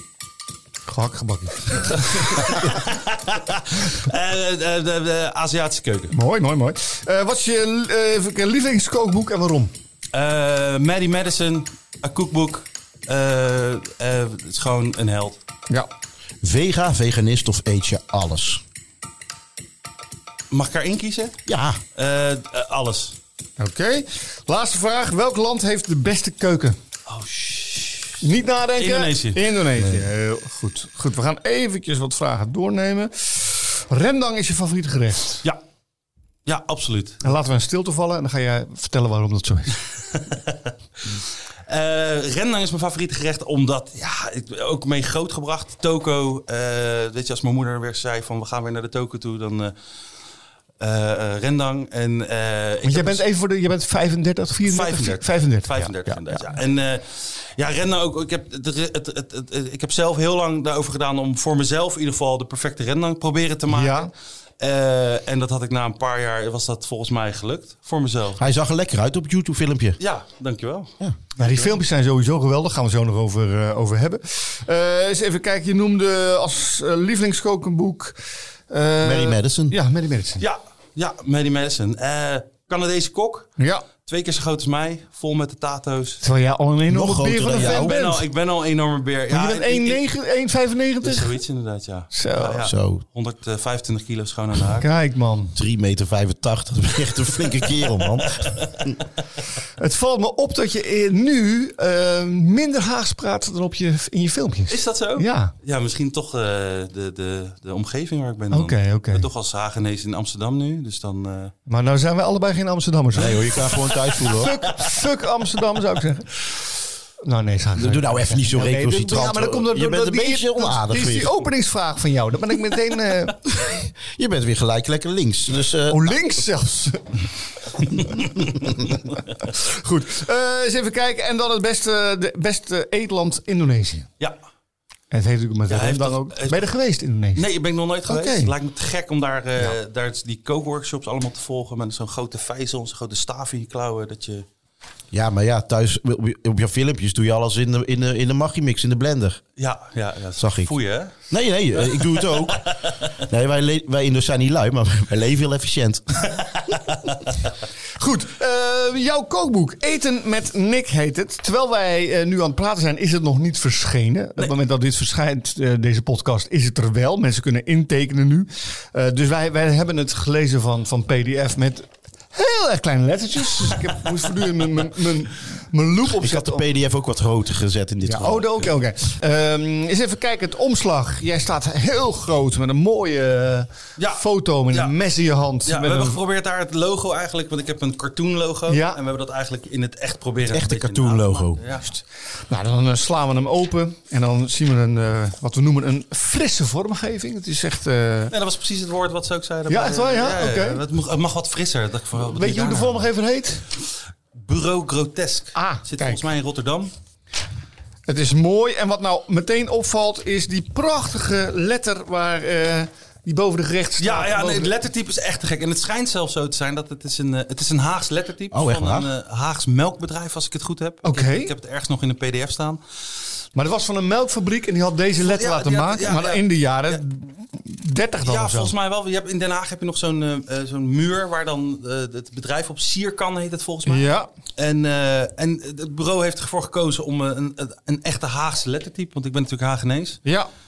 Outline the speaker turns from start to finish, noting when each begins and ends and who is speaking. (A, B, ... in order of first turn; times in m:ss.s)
0:00.9-0:02.7 A
0:01.8-0:06.1 B
0:06.1-0:09.7 A
0:10.1-0:15.4 B
0:16.4-0:18.6 C
0:20.5-0:21.4 B
0:21.4-0:21.8 C
0:22.0-0:23.2 B
0:23.6-0:26.8 A
0:27.0-0:28.2 B
0:28.2-0:35.4 A
0:28.8-0:29.4 B
0:29.8-0:30.0 C
0:36.4-0:37.2 B
0:37.2-0:39.8 A
0:40.1-0:40.7 B
0:41.7-0:49.7 B
0:50.8-0:53.2 B
0:52.8-0:56.5 A
0:54.6-1:08.4 B
1:03.7-1:04.1 A
1:08.4-1:10.0 C
1:10.0-1:11.8 B
1:11.4-1:18.2 A
1:18.7-1:20.4 A
1:19.0-1:19.8 C
1:20.4-1:23.5 B
1:23.6-1:23.8 A
1:24.0-1:26.2 B
1:26.2-1:28.2 A
1:26.9-1:28.0 C
1:27.6-1:30.0 B
1:29.3-1:31.4 A
1:31.0-1:34.9 B
1:32.1-1:32.7 A
1:32.6-1:33.0 C
1:34.8-1:35.5 A
1:35.5-1:39.0 C
1:37.8-1:38.9 B
1:39.8-1:45.5 A
1:44.7-1:51.5 B
1:48.5-1:49.3 A
1:51.7-1:53.6 A
1:53.1-1:54.6 C
1:54.2-1:56.6 A
1:57.2-2:03.4 A
1:57.8-2:01.3 C
2:03.6-2:06.1 C
2:05.9-2:07.0 A
2:07.9-2:14.1 A
2:08.0-2:08.7 B
2:15.1-2:17.4 A
2:15.7-2:16.7 B
2:17.3-2:24.4 B
2:18.1-2:18.5 A
2:25.1-2:29.4 C
2:29.6-2:31.2 B
2:30.4-2:32.6 C
2:31.8-2:33.0 B
2:33.2-2:36.3 C
2:36.7-2:37.0 B
2:38.0-2:56.6 A
2:56.2-2:58.5 C
2:58.0-3:06.2 A
3:04.0-3:04.9 B
3:05.6-3:11.8 B
3:08.7-3:09.0 A
3:10.5-3:11.6 C
3:11.8-3:18.3 A
3:18.3-3:23.0 B
3:19.7-3:20.8 A
3:22.2-3:23.6 A
3:24.3-3:26.9 B
3:25.5-3:26.3 A
3:28.1-3:34.7 A
3:34.0-3:42.8 B
3:38.5-3:39.1 C
3:41.0-3:41.5 A
3:43.5-3:48.7 A
3:45.2-3:47.0 B
3:48.2-4:00.2 B
3:53.9-3:54.3 A